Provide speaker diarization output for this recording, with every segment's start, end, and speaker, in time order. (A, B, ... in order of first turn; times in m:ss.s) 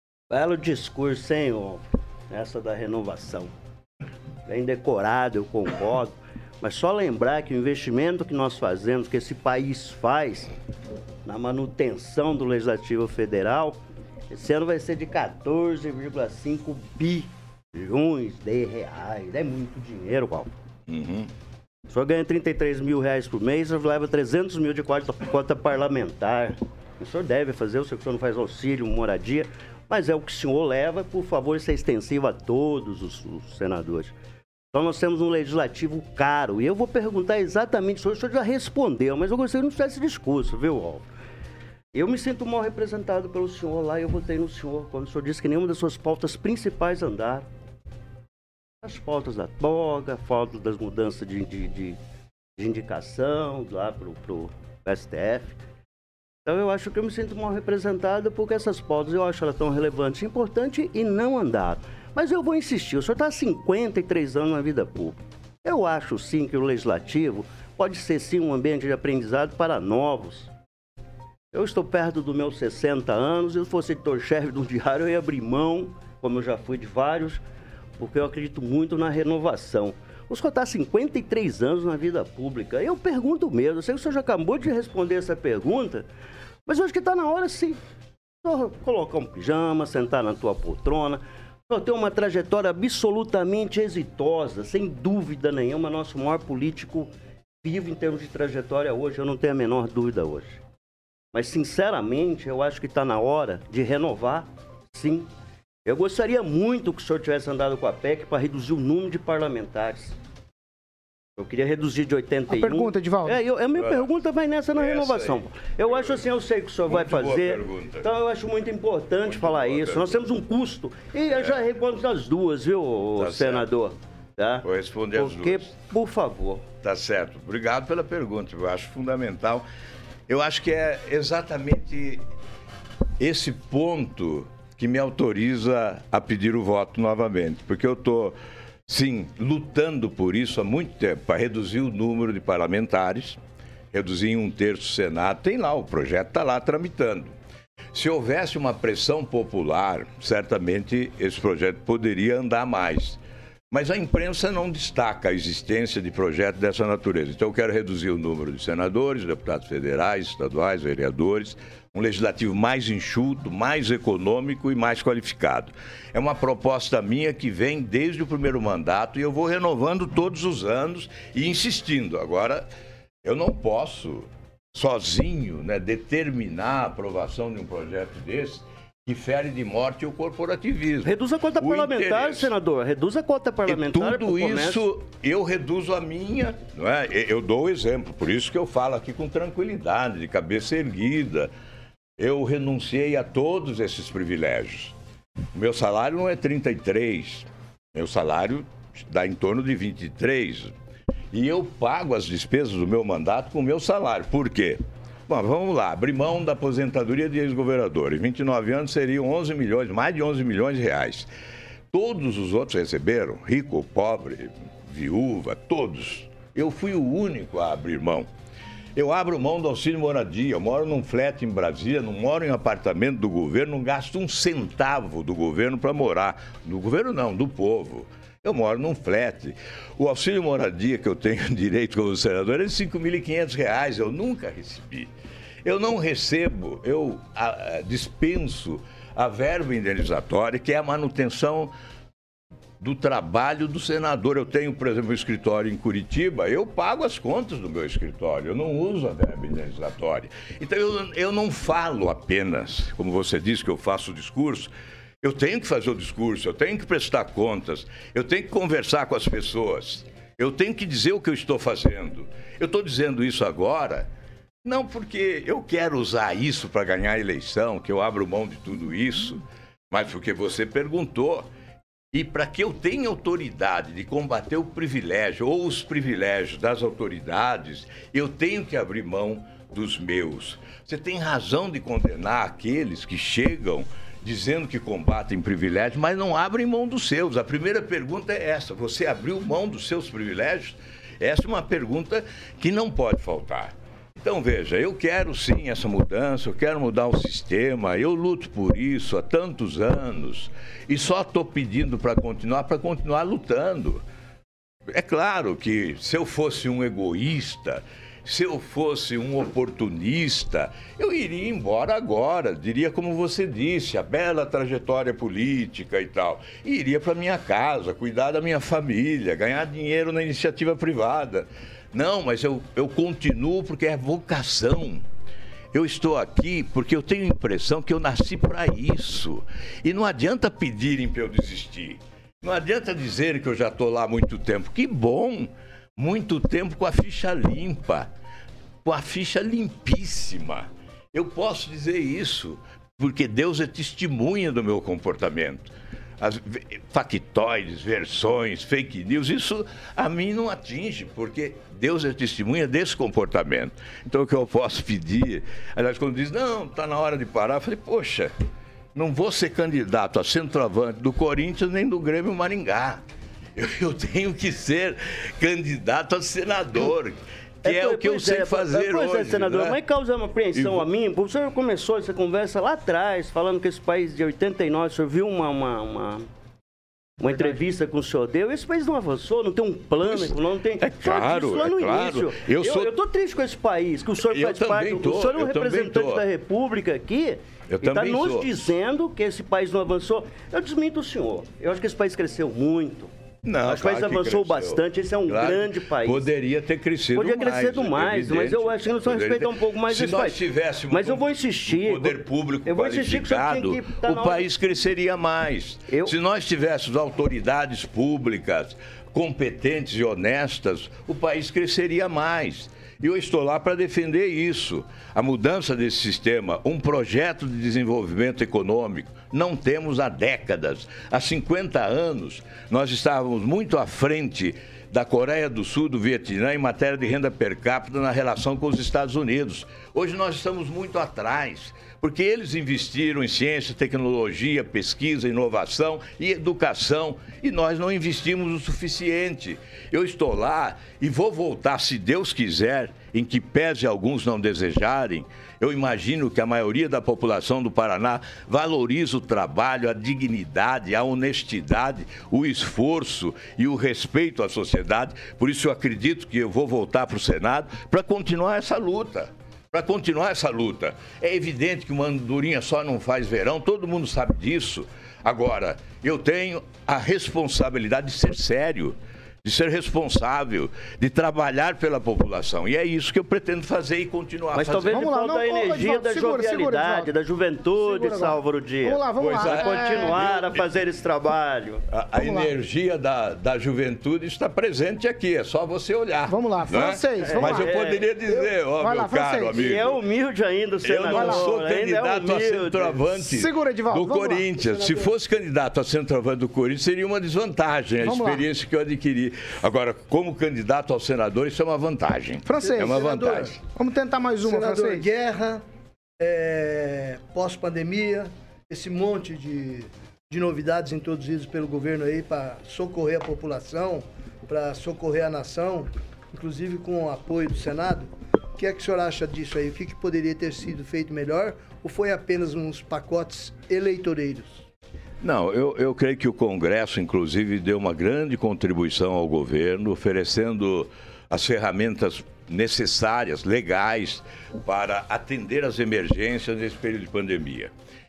0:00.3-0:03.5 A
0:04.5-0:10.5 A
0:11.3-0:13.8 A
0:14.3-0:20.5 A
0:20.9-0:21.3 B
0:21.9-0:34.1 A
0:34.7-0:41.0 A
0:41.9-0:47.5 A
0:48.8-0:52.0 A
0:52.6-0:55.6 A
0:56.5-1:10.5 A
1:11.5-1:17.4 A
1:18.0-1:26.0 A
1:26.7-1:27.8 A
1:28.4-1:40.6 A
1:41.3-1:45.3 A
1:45.8-1:50.2 A
1:51.4-2:06.6 A
1:52.5-1:53.4 C
1:53.8-1:54.1 B
1:54.8-1:56.2 B
1:56.8-1:58.1 B
1:59.3-2:00.2 B
2:01.3-2:01.6 B
2:03.2-2:03.6 B
2:04.6-2:05.7 B
2:06.8-2:09.6 B
2:10.3-2:12.2 B
2:13.2-2:18.4 B
2:18.9-2:23.4 B
2:23.9-2:27.3 B
2:27.9-2:33.2 B
2:33.7-2:52.7 B
2:53.2-3:02.5 B
3:01.0-3:04.8 A
3:03.7-3:11.5 B
3:12.2-3:14.9 B
3:15.5-3:20.7 B
3:21.3-3:31.3 B
3:31.9-3:38.3 B
3:39.0-3:55.1 B
3:55.6-4:01.7 B
4:02.8-4:14.7 B
4:15.2-4:24.1 B
4:24.6-4:31.5 B
4:32.1-5:04.0 B
5:04.9-5:25.0 B
5:25.7-5:38.1 B
5:38.8-5:58.3 B
5:59.0-6:03.0 B
6:03.6-6:09.8 B
6:07.6-6:16.3 A
6:10.5-6:10.9 B
6:17.2-6:33.1 A
6:20.0-6:22.9 B
6:24.2-6:26.2 B
6:27.7-6:28.5 B
6:33.4-7:55.0 B
6:33.7-6:36.3 A
6:37.2-6:40.4 A
6:40.9-6:44.5 A
7:54.5-8:01.8 A
7:54.9-7:57.1 C
7:57.8-8:00.2 C
7:59.2-8:00.7 B
8:01.9-8:10.0 B
8:02.2-8:02.5 C
8:06.3-8:07.7 C
8:07.2-8:08.1 A
8:08.8-8:09.6 C
8:09.5-8:13.0 A
8:10.8-8:23.6 B
8:11.1-8:11.5 C
8:13.2-8:14.5 C
8:14.6-8:15.1 D
8:18.0-8:18.4 C
8:22.5-8:23.1 C
8:22.5-8:23.5 D
8:23.6-8:25.0 C
8:24.4-8:25.6 D
8:26.2-8:44.6 D
8:45.2-8:57.7 B